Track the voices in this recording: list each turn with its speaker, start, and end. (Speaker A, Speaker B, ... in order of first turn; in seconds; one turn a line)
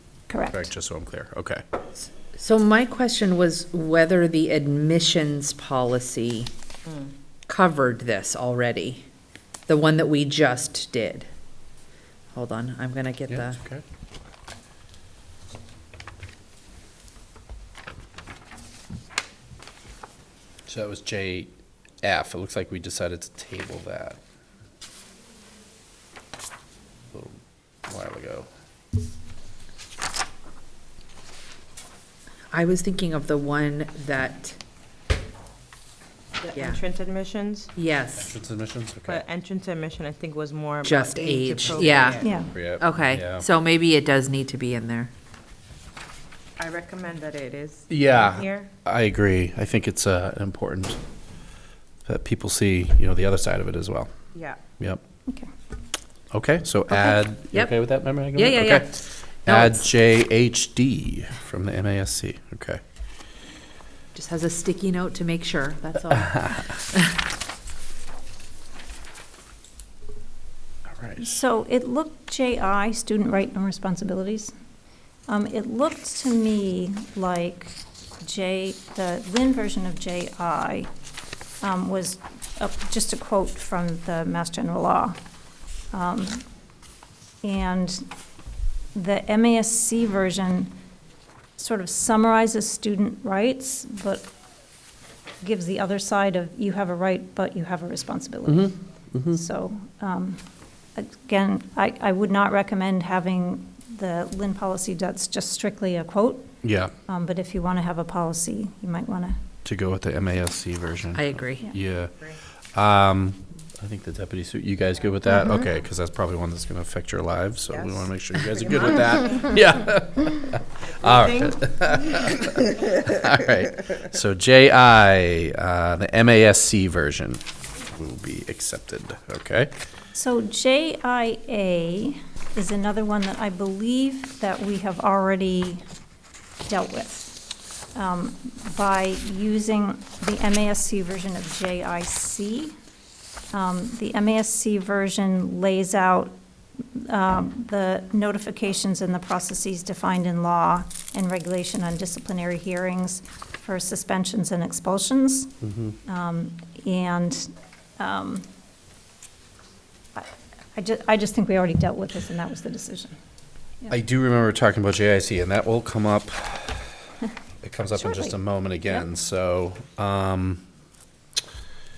Speaker A: 0.3-0.7
Speaker B: 0.5-1.6
Speaker C: 2.0-6.5
Speaker C: 7.5-9.1
Speaker C: 9.7-11.3
Speaker C: 12.3-13.6
Speaker B: 13.3-13.8
Speaker B: 20.7-24.2
Speaker B: 27.1-28.5
Speaker C: 32.5-34.6
Speaker D: 36.4-37.7
Speaker C: 36.5-36.8
Speaker C: 37.8-38.3
Speaker B: 38.2-39.2
Speaker D: 39.1-42.4
Speaker C: 40.8-42.2
Speaker A: 42.2-42.5
Speaker B: 42.3-43.5
Speaker C: 42.8-45.1
Speaker D: 46.6-48.7
Speaker B: 47.9-51.0
Speaker B: 52.0-54.1
Speaker D: 54.3-54.6
Speaker B: 56.3-62.8
Speaker C: 58.3-59.8
Speaker C: 64.1-67.2
Speaker B: 66.3-66.5
Speaker B: 71.0-71.3
Speaker A: 71.2-74.5
Speaker A: 75.3-80.9
Speaker A: 81.6-85.2
Speaker A: 85.9-86.4
Speaker A: 87.4-88.0
Speaker A: 88.9-90.7
Speaker A: 91.6-94.2
Speaker A: 95.4-100.4
Speaker B: 98.5-99.4
Speaker A: 101.0-106.5
Speaker B: 106.6-106.9
Speaker A: 107.1-109.4
Speaker B: 109.6-112.1
Speaker C: 111.1-111.7
Speaker B: 112.7-129.7
Speaker D: 117.7-119.6
Speaker D: 120.8-122.8
Speaker A: 130.1-135.8
Speaker A: 136.7-137.4
Speaker A: 137.9-142.7
Speaker A: 143.5-146.3
Speaker A: 146.9-155.5
Speaker B: 155.6-155.9
Speaker A: 156.1-158.4
Speaker A: 160.2-163.2
Speaker B: 163.9-166.8
Speaker B: 167.6-170.6
Speaker A: 167.9-169.1